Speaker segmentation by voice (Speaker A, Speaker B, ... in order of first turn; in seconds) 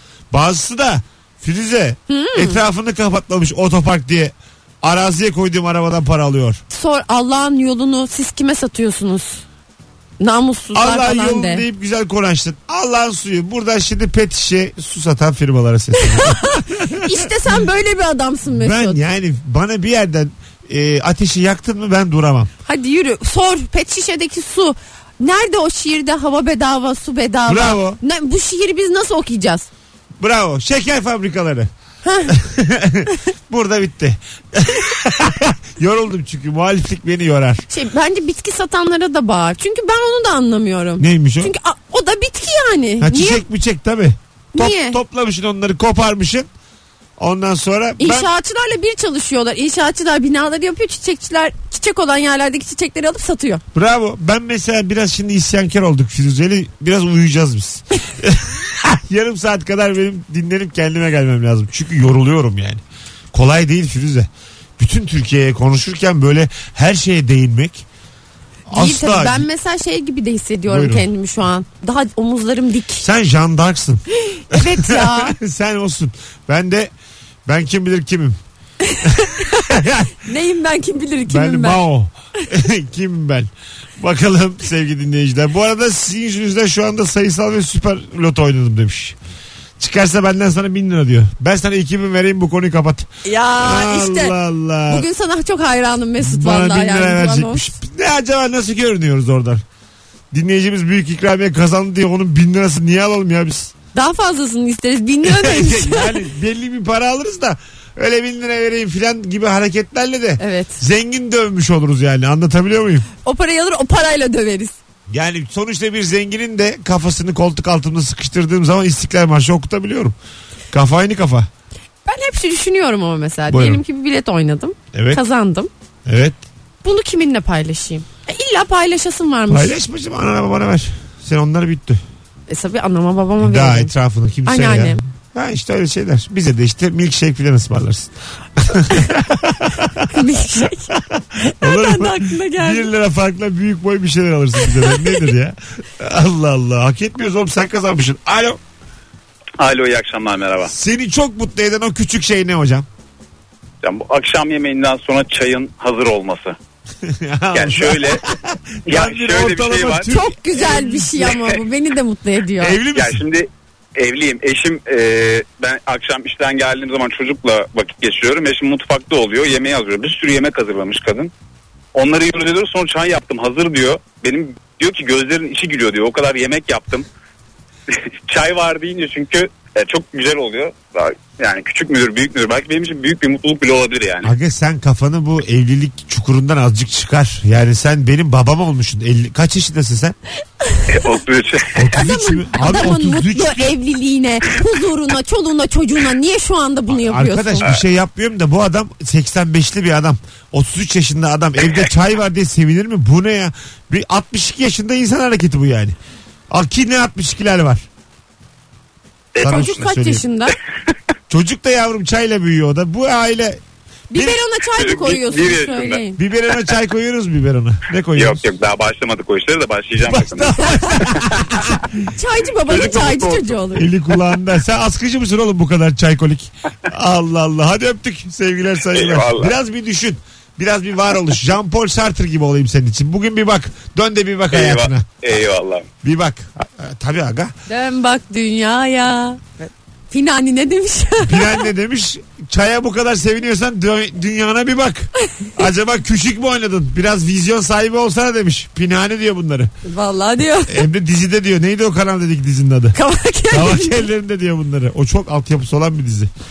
Speaker A: 0.3-6.6, 10.7-17.3, 18.5-22.5, 27.5-28.0, 30.2-31.7, 32.3-37.6, 41.0-41.5, 43.0-46.5, 47.2-48.3, 53.7-67.8, 68.7-69.5, 70.7-71.1, 73.0-76.9, 77.5-78.4, 79.0-80.1, 81.3-89.2, 89.8-95.0, 96.2-99.6, 100.3-103.7, 105.2-113.1, 115.1-120.2, 120.7-121.5, 123.5-123.8, 124.9-125.2, 126.0-126.4, 129.5-132.0, 133.4-140.1, 140.9-148.6, 150.7-152.8, 157.0-161.5, 162.6-163.2, 184.2-190.2, 191.7-193.7, 196.9-206.0, 206.5-207.8, 209.4-210.2, 211.3-213.6, 214.1-214.4, 216.2-218.4, 220.0-221.9, 223.7-235.1, 236.0-237.5, 241.2-249.7, 250.7-253.0, 253.5-256.3
Speaker B: 2.1-2.6, 6.7-9.4, 10.2-11.6, 16.1-19.0, 22.6-29.7, 32.0-32.3, 37.7-43.4, 44.5-45.0, 48.0-53.6, 68.7-73.0, 74.3-75.3, 78.8-79.7, 80.2-81.8, 93.2-94.3, 94.9-97.7, 103.9-106.2, 110.4-110.8, 113.2-114.8, 122.0-125.7, 126.8-129.7, 132.5-133.9, 134.4-135.0, 140.1-142.9, 144.9-145.2, 160.1-162.8, 190.7-191.1, 191.9-197.7, 209.4-210.5, 214.1-216.2, 222.1-223.8, 237.7-241.7, 249.8-250.8, 252.9-254.1
Speaker C: 149.6-150.7, 153.8-156.6, 157.5-158.2, 158.9-160.1, 162.9-171.3, 171.9-177.1, 178.3-184.3, 190.9-191.8, 214.7-216.0, 218.1-221.2, 222.6-223.6, 228.9-229.5, 234.5-235.8